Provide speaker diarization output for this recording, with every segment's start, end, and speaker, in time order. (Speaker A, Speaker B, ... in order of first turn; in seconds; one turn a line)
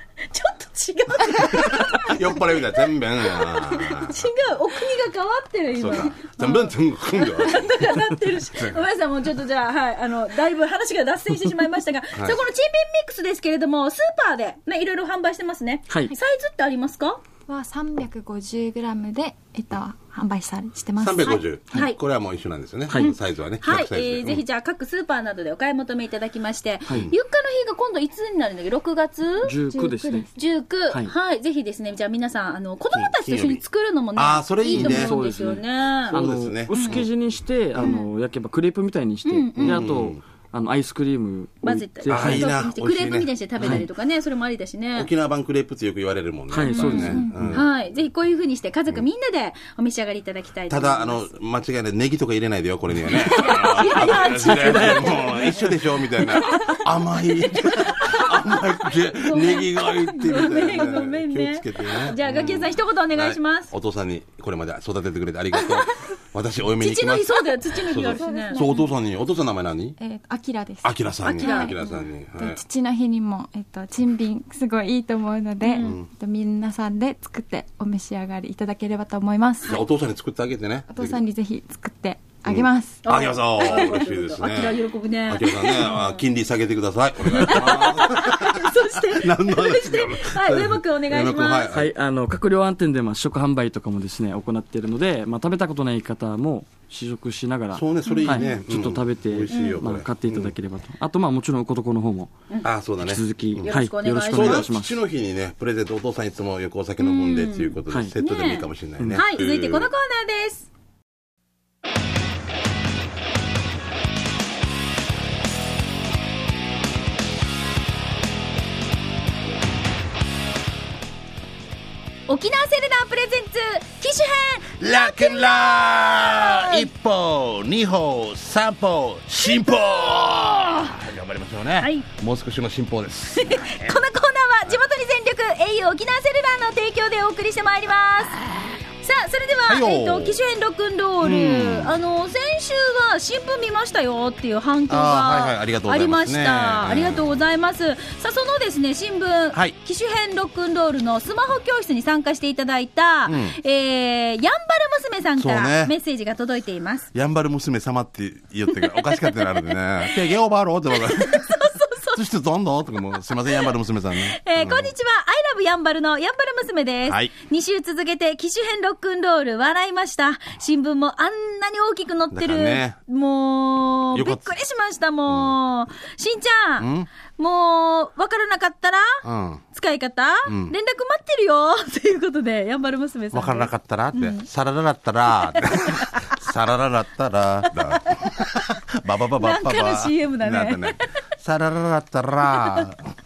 Speaker A: 0.3-2.5
Speaker B: 1.4-4.2
Speaker A: 3.2-17.2
Speaker B: 5.8-8.8
Speaker B: 12.1-12.4
Speaker C: 15.9-16.1
Speaker D: 17.5-21.4
Speaker B: 21.0-24.4
Speaker A: 21.7-22.0
Speaker C: 22.9-23.1
Speaker A: 23.0-36.2
Speaker B: 26.9-27.1
Speaker C: 29.4-30.3
Speaker D: 29.7-30.3
Speaker B: 32.9-33.6
Speaker B: 34.1-35.1
Speaker C: 34.7-42.5
Speaker B: 36.1-37.1
Speaker A: 36.7-37.0
Speaker A: 37.8-38.1
Speaker A: 39.2-39.9
Speaker B: 39.6-40.2
Speaker A: 41.6-45.1
Speaker B: 42.1-43.9
Speaker C: 43.6-43.9
Speaker B: 44.9-47.7
Speaker C: 46.5-47.6
Speaker D: 46.7-47.4
Speaker A: 46.7-51.3
Speaker B: 50.7-70.0
Speaker A: 53.1-55.5
Speaker C: 53.8-55.9
Speaker A: 56.5-56.8
Speaker A: 57.4-58.3
Speaker A: 59.1-63.7
Speaker A: 66.8-68.7
Speaker D: 68.0-68.9
Speaker D: 70.0-79.8
Speaker B: 70.8-72.6
Speaker A: 71.2-72.0
Speaker A: 75.6-76.0
Speaker B: 75.8-76.1
Speaker B: 79.6-81.2
Speaker D: 80.9-83.1
Speaker B: 82.5-91.9
Speaker A: 83.0-86.2
Speaker A: 87.2-91.7
Speaker C: 91.7-102.3
Speaker B: 97.7-100.5
Speaker A: 98.0-98.5
Speaker A: 99.5-99.8
Speaker B: 102.6-103.7
Speaker C: 103.0-105.0
Speaker A: 103.6-104.7
Speaker B: 104.2-109.9
Speaker A: 107.0-110.7
Speaker A: 122.3-126.9
Speaker B: 124.8-134.0
Speaker A: 129.4-130.9
Speaker A: 131.8-132.1
Speaker A: 133.3-138.4
Speaker A: 139.0-157.1
Speaker B: 139.7-140.4
Speaker B: 141.2-141.9
Speaker B: 144.9-147.3
Speaker B: 153.2-153.6
Speaker B: 155.4-155.9
Speaker B: 157.1-164.9
Speaker A: 158.9-160.2
Speaker A: 160.9-162.2
Speaker A: 164.2-184.4
Speaker B: 167.1-167.3
Speaker B: 172.3-172.9
Speaker B: 174.1-174.5
Speaker B: 175.3-175.5
Speaker B: 176.8-177.1
Speaker B: 179.2-179.6
Speaker B: 180.4-180.7
Speaker B: 183.3-193.1
Speaker A: 185.6-186.2
Speaker A: 189.4-191.1
Speaker A: 192.4-192.9